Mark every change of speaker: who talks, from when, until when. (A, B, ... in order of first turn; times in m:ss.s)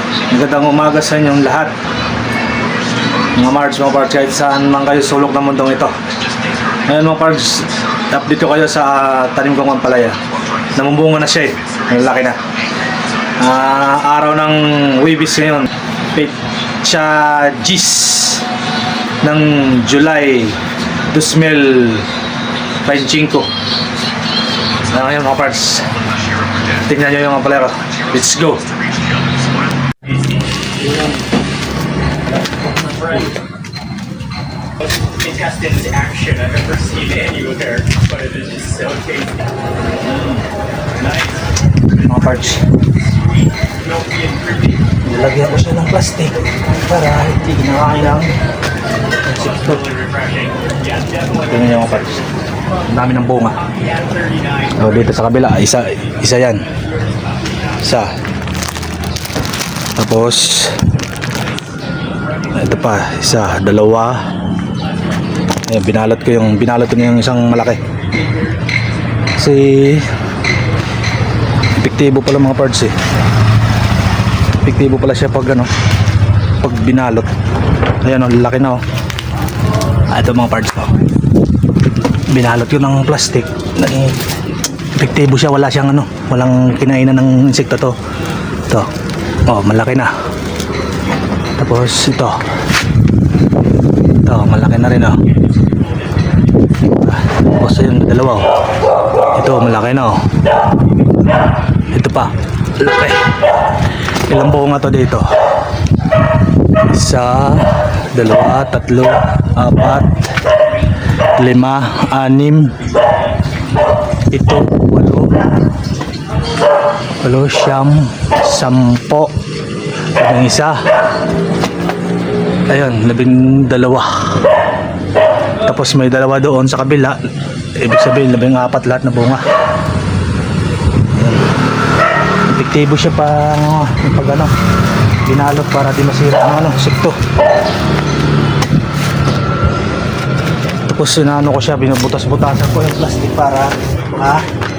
0:00.3-0:01.7 A
0:03.4-0:05.9 A
0:06.9-0:10.2 A
0:10.7-0:12.4 A
0:13.4-0:18.4 A
0:19.2-0:20.6 A
0:21.1-0:22.0 A
0:22.8-0:23.5 A
0:24.9-0:25.9 A
0:26.8-0:28.7 A
0:30.8-0:31.2 A
0:32.4-0:33.3 A
0:35.0-0:39.5 B
0:41.0-0:41.5 B
0:42.0-0:42.6 A
0:42.1-0:44.9 B
0:45.0-0:48.3 A
0:49.2-0:49.8 A
0:49.6-0:52.3 B
0:51.4-0:52.2 A
0:52.9-0:53.6 A
0:53.6-0:55.2 B
0:54.8-0:56.7 A
0:56.7-0:57.8 B
0:57.8-0:58.1 A
1:00.0-1:00.8 A
1:02.5-1:04.2 A
1:05.7-1:07.8 A
1:08.1-1:08.5 B
1:09.4-1:10.1 A
1:11.8-1:13.0 A
1:14.6-1:15.7 A
1:16.6-1:17.3 A
1:18.0-1:18.8 A
1:20.1-1:21.0 A
1:22.3-1:24.2 A
1:25.0-1:27.9 A
1:29.5-1:30.1 A
1:31.6-1:32.4 A
1:34.2-1:35.2 A
1:36.9-1:38.5 A
1:39.3-1:40.2 A
1:41.9-1:43.3 A
1:44.3-1:45.3 A
1:46.9-1:50.2 A
1:51.4-1:52.8 A
1:54.3-1:55.3 A
1:57.2-1:59.3 A
2:00.1-2:00.8 A
2:02.7-2:04.5 A
2:05.6-2:07.2 A
2:07.8-2:09.4 A
2:11.1-2:11.5 A
2:12.5-2:14.5 A
2:15.3-2:17.2 A
2:20.9-2:24.4 A